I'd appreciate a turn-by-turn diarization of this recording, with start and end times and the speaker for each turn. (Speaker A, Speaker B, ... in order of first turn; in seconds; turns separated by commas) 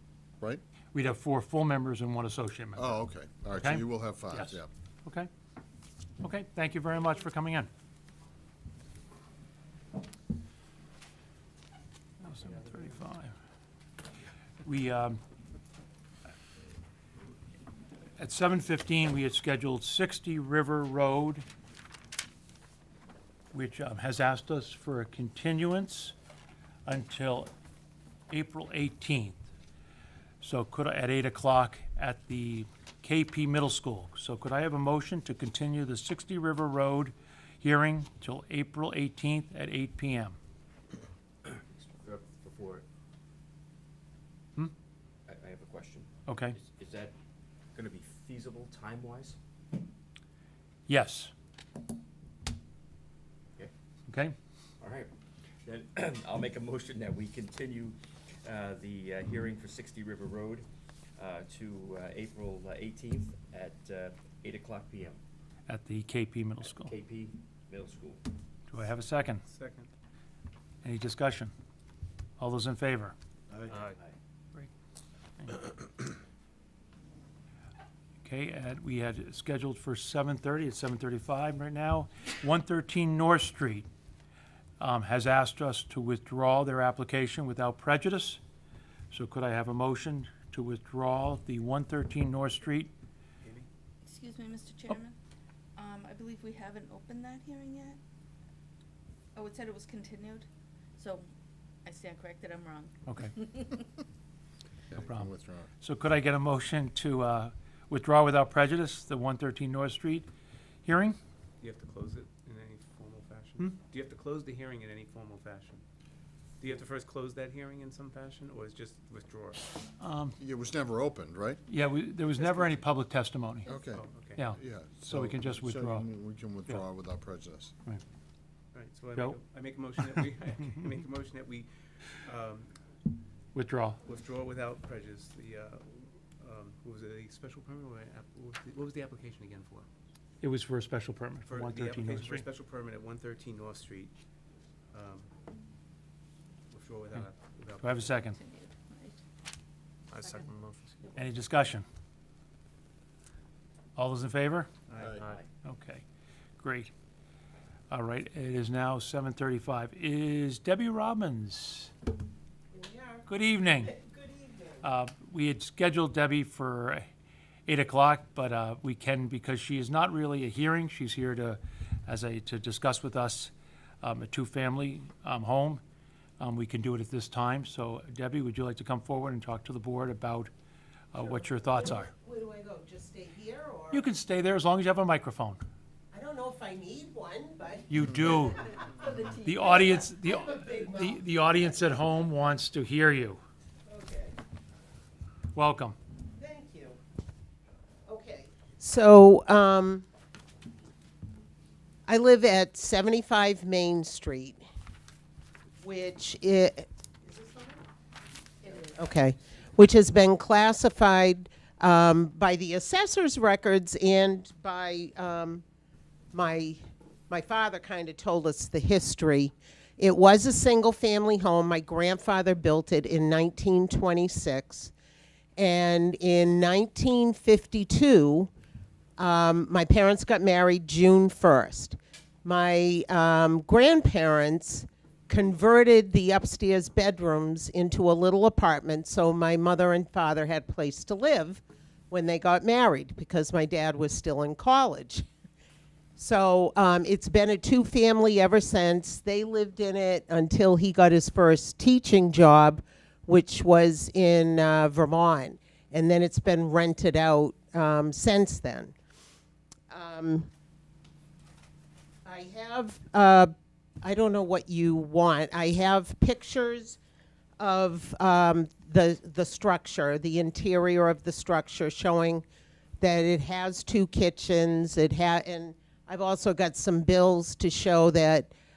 Speaker A: 0.9-3.0, Speaker B: 2.8-4.7, Speaker A: 3.6-5.3, Speaker A: 6.2-7.7, Speaker A: 12.2-13.3, Speaker A: 14.6-15.2, Speaker A: 18.2-21.4, Speaker A: 23.5-26.1, Speaker A: 26.9-27.5, Speaker A: 28.3-29.4, Speaker A: 30.4-40.4, Speaker C: 41.4-42.8, Speaker C: 45.3-47.1, Speaker A: 46.3-46.5, Speaker C: 47.7-49.4, Speaker A: 50.9-51.3, Speaker A: 54.1-54.3, Speaker C: 54.8-55.1, Speaker C: 55.6-65.2, Speaker A: 65.7-66.9, Speaker C: 66.6-68.2, Speaker A: 68.7-69.4, Speaker D: 69.4-69.9, Speaker A: 70.8-71.5, Speaker A: 72.4-73.1, Speaker C: 73.6-74.1, Speaker A: 78.2-83.9, Speaker A: 84.8-88.4, Speaker A: 89.1-92.9, Speaker E: 94.0-95.1, Speaker E: 95.8-98.0, Speaker E: 99.3-101.3, Speaker E: 101.8-103.9, Speaker A: 103.1-103.3, Speaker B: 104.9-105.7, Speaker A: 105.0-110.3, Speaker A: 110.8-111.2, Speaker D: 111.6-115.8, Speaker D: 116.6-119.6, Speaker A: 120.0-120.3, Speaker B: 120.4-121.6, Speaker A: 121.7-123.7, Speaker B: 123.7-127.7, Speaker D: 123.8-124.4, Speaker A: 124.4-126.1, Speaker D: 128.7-132.7, Speaker A: 133.5-134.0, Speaker D: 134.0-139.9, Speaker A: 140.4-142.5, Speaker D: 141.4-144.1, Speaker D: 144.9-145.3, Speaker D: 146.7-148.2, Speaker A: 147.8-148.4, Speaker E: 148.2-149.2, Speaker D: 150.1-151.2, Speaker A: 151.2-151.8, Speaker A: 153.9-154.7, Speaker D: 154.9-155.4, Speaker C: 154.9-155.5, Speaker A: 155.6-156.0, Speaker A: 156.6-156.9, Speaker A: 157.9-161.9, Speaker F: 162.7-163.3, Speaker A: 163.3-163.9, Speaker F: 163.8-164.8, Speaker A: 164.8-167.1, Speaker A: 167.7-175.8, Speaker A: 176.4-180.5, Speaker A: 181.1-182.1, Speaker F: 181.2-184.1, Speaker A: 183.9-185.6, Speaker F: 186.1-189.2, Speaker A: 187.9-188.7, Speaker E: 188.9-190.1, Speaker A: 189.4-193.4, Speaker F: 190.0-191.2, Speaker F: 193.9-194.3, Speaker A: 195.5-195.9, Speaker F: 196.3-197.0, Speaker F: 198.1-200.0, Speaker F: 202.1-204.6, Speaker F: 205.8-207.8, Speaker F: 208.6-215.6, Speaker F: 216.3-224.9, Speaker F: 225.6-228.5, Speaker F: 229.2-245.2, Speaker F: 246.2-258.9, Speaker F: 259.9-260.5, Speaker F: 262.2-267.0, Speaker F: 267.6-272.4, Speaker F: 273.0-278.5